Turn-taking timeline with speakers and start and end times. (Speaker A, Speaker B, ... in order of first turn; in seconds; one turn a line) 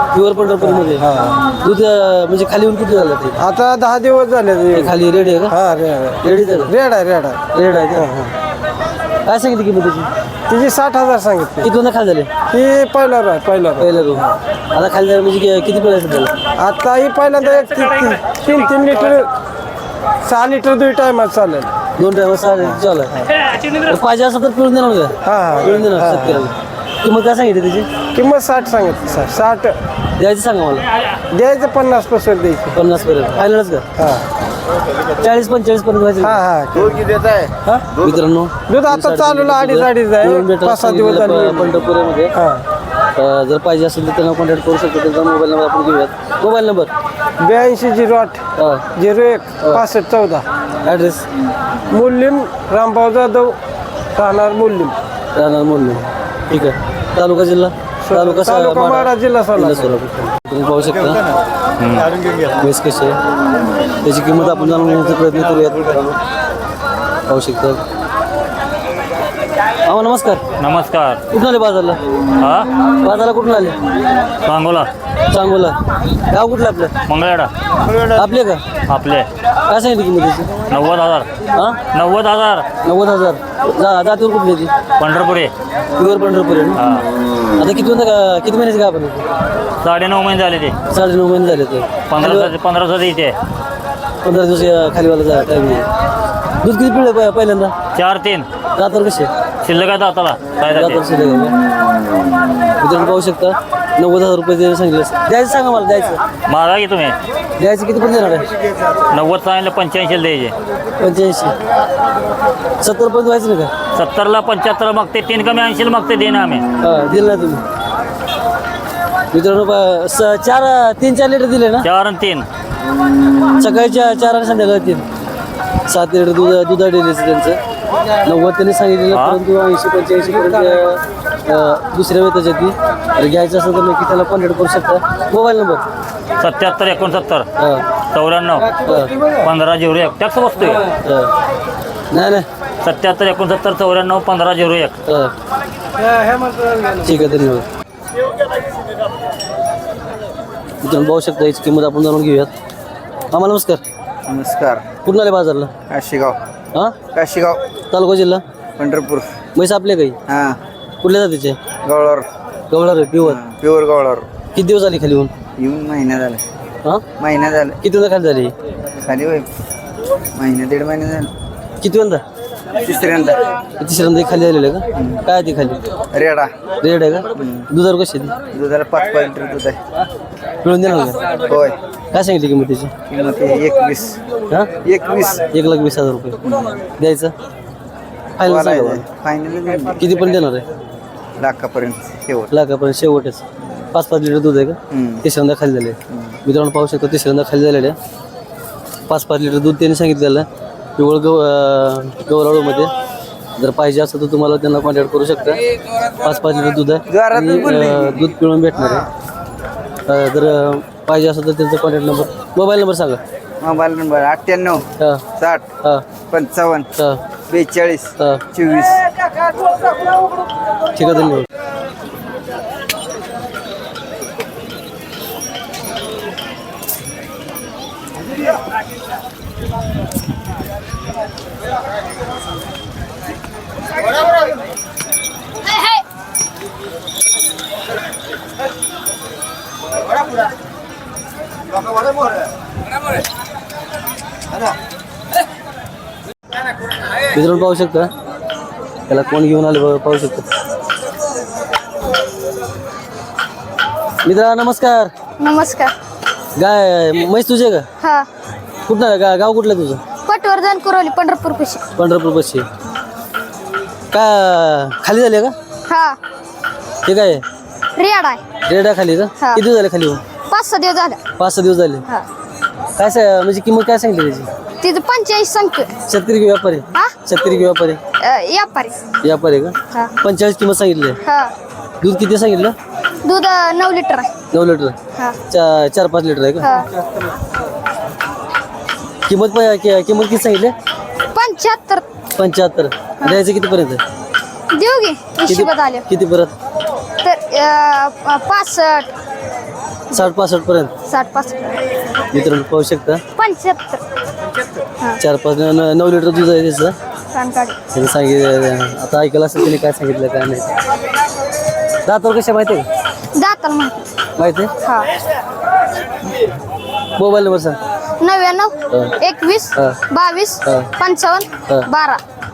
Speaker A: 0.1-3.4
Speaker B: 0.8-1.4
Speaker B: 3.4-4.9
Speaker A: 4.7-5.6
Speaker B: 5.5-8.3
Speaker A: 6.2-6.7
Speaker A: 7.5-8.1
Speaker A: 9.2-10.1
Speaker B: 10.5-11.7
Speaker A: 11.6-12.3
Speaker B: 12.5-14.3
Speaker A: 13.8-16.3
Speaker B: 16.6-19.3
Speaker B: 20.2-21.7
Speaker A: 22.0-27.9
Speaker B: 25.2-26.5
Speaker B: 28.1-29.8
Speaker A: 30.2-30.9
Speaker B: 31.3-32.8
Speaker A: 32.7-33.8
Speaker B: 34.0-34.3
Speaker A: 35.2-36.4
Speaker B: 36.2-37.9
Speaker A: 37.9-42.3
Speaker B: 38.7-41.8
Speaker B: 42.3-42.6
Speaker A: 43.1-46.9
Speaker B: 47.4-48.4
Speaker A: 48.6-48.9
Speaker B: 48.9-50.4
Speaker A: 50.8-51.2
Speaker B: 51.9-53.6
Speaker B: 54.1-54.9
Speaker A: 55.3-61.2
Speaker B: 58.0-59.9
Speaker C: 61.8-62.2
Speaker A: 62.5-63.2
Speaker A: 64.0-66.2
Speaker A: 67.3-67.8
Speaker A: 69.8-70.4
Speaker C: 70.6-71.2
Speaker A: 71.3-72.0
Speaker C: 72.4-72.7
Speaker A: 73.0-73.8
Speaker C: 74.4-74.9
Speaker A: 75.3-75.7
Speaker A: 76.3-76.9
Speaker C: 77.0-77.5
Speaker A: 78.1-78.6
Speaker C: 78.9-79.3
Speaker A: 79.7-80.5
Speaker C: 80.7-81.3
Speaker A: 81.5-81.8
Speaker C: 81.9-82.7
Speaker A: 82.8-84.7
Speaker C: 85.0-85.5
Speaker A: 86.0-86.8
Speaker C: 86.8-87.1
Speaker A: 87.6-89.2
Speaker C: 89.8-90.8
Speaker A: 90.9-92.5
Speaker C: 92.1-93.4
Speaker A: 94.2-95.9
Speaker A: 96.6-97.7
Speaker C: 97.9-98.5
Speaker A: 98.8-99.3
Speaker C: 99.6-101.0
Speaker A: 100.7-101.5
Speaker A: 102.8-106.2
Speaker C: 106.5-107.2
Speaker A: 107.6-108.5
Speaker C: 109.1-110.5
Speaker A: 111.0-111.5
Speaker A: 112.8-113.7
Speaker C: 113.9-116.7
Speaker A: 116.8-117.6
Speaker A: 119.3-121.9
Speaker C: 121.8-122.5
Speaker A: 123.6-125.0
Speaker A: 125.9-127.6
Speaker A: 128.2-135.8
Speaker C: 129.1-129.4
Speaker C: 136.4-137.5
Speaker A: 137.6-137.8
Speaker C: 138.1-138.7
Speaker A: 138.8-139.1
Speaker C: 139.4-140.9
Speaker A: 141.0-141.3
Speaker A: 142.1-142.5
Speaker C: 142.8-144.9
Speaker A: 145.1-145.3
Speaker A: 147.0-147.7
Speaker A: 150.8-152.5
Speaker A: 153.3-153.8
Speaker D: 154.3-154.8
Speaker A: 155.0-155.7
Speaker D: 155.9-156.4
Speaker D: 157.1-157.6
Speaker A: 157.9-158.4
Speaker D: 158.8-159.3
Speaker A: 159.5-160.2
Speaker D: 160.3-160.6
Speaker A: 161.0-161.6
Speaker D: 161.8-162.3
Speaker A: 162.7-163.4
Speaker D: 163.3-164.3
Speaker A: 164.5-165.3
Speaker D: 165.6-166.4
Speaker D: 167.2-167.8
Speaker A: 167.8-168.5
Speaker D: 169.0-169.5
Speaker D: 170.3-171.3
Speaker A: 171.8-172.2
Speaker D: 172.9-173.4
Speaker A: 173.8-175.8
Speaker D: 176.1-176.5
Speaker A: 176.8-178.4
Speaker D: 178.5-179.8
Speaker A: 180.6-181.2
Speaker D: 181.5-181.7
Speaker A: 182.1-182.9
Speaker D: 183.1-184.2
Speaker D: 184.8-185.4
Speaker A: 185.5-186.4
Speaker A: 187.0-187.3
Speaker A: 188.4-189.0
Speaker D: 188.5-189.9
Speaker A: 189.9-190.6
Speaker D: 191.4-192.5
Speaker A: 192.5-193.4
Speaker A: 193.9-198.0
Speaker D: 194.9-195.2
Speaker A: 199.1-200.4
Speaker A: 201.0-202.9
Speaker A: 203.6-205.6
Speaker A: 206.2-209.1
Speaker D: 207.1-208.0
Speaker A: 210.1-213.2
Speaker D: 213.6-214.8
Speaker A: 215.0-215.2
Speaker D: 215.4-215.6
Speaker D: 216.3-216.9
Speaker D: 217.5-218.9
Speaker A: 220.9-221.5
Speaker A: 247.3-248.1
Speaker A: 249.1-250.4
Speaker A: 254.2-255.1
Speaker E: 255.4-255.9
Speaker A: 256.6-257.9
Speaker E: 258.0-258.3
Speaker A: 258.9-260.0
Speaker E: 260.2-261.9
Speaker A: 261.9-262.6
Speaker A: 264.1-265.5
Speaker E: 265.9-266.2
Speaker A: 267.0-267.4
Speaker E: 267.9-268.4
Speaker A: 268.6-270.2
Speaker E: 270.5-271.2
Speaker A: 271.4-272.1
Speaker A: 273.0-274.5
Speaker E: 274.8-275.9
Speaker A: 276.1-278.0
Speaker E: 278.2-279.0
Speaker A: 279.2-281.2
Speaker E: 281.2-281.5
Speaker A: 282.0-282.7
Speaker E: 283.2-284.3
Speaker A: 284.5-284.9
Speaker A: 285.5-286.7
Speaker E: 286.6-286.9
Speaker A: 289.2-290.7
Speaker E: 291.3-292.1
Speaker A: 292.4-294.0
Speaker E: 294.7-296.0
Speaker A: 295.4-296.5
Speaker E: 297.2-299.1
Speaker A: 300.1-300.9
Speaker E: 301.1-301.8
Speaker A: 302.3-303.2
Speaker E: 303.4-304.0
Speaker A: 305.2-306.9
Speaker E: 307.3-307.8
Speaker A: 307.9-310.6
Speaker A: 312.0-312.9
Speaker E: 313.4-314.1
Speaker A: 314.4-314.7
Speaker A: 317.2-317.8
Speaker E: 318.2-322.2
Speaker A: 318.9-319.1
Speaker A: 319.7-320.0
Speaker A: 320.6-320.9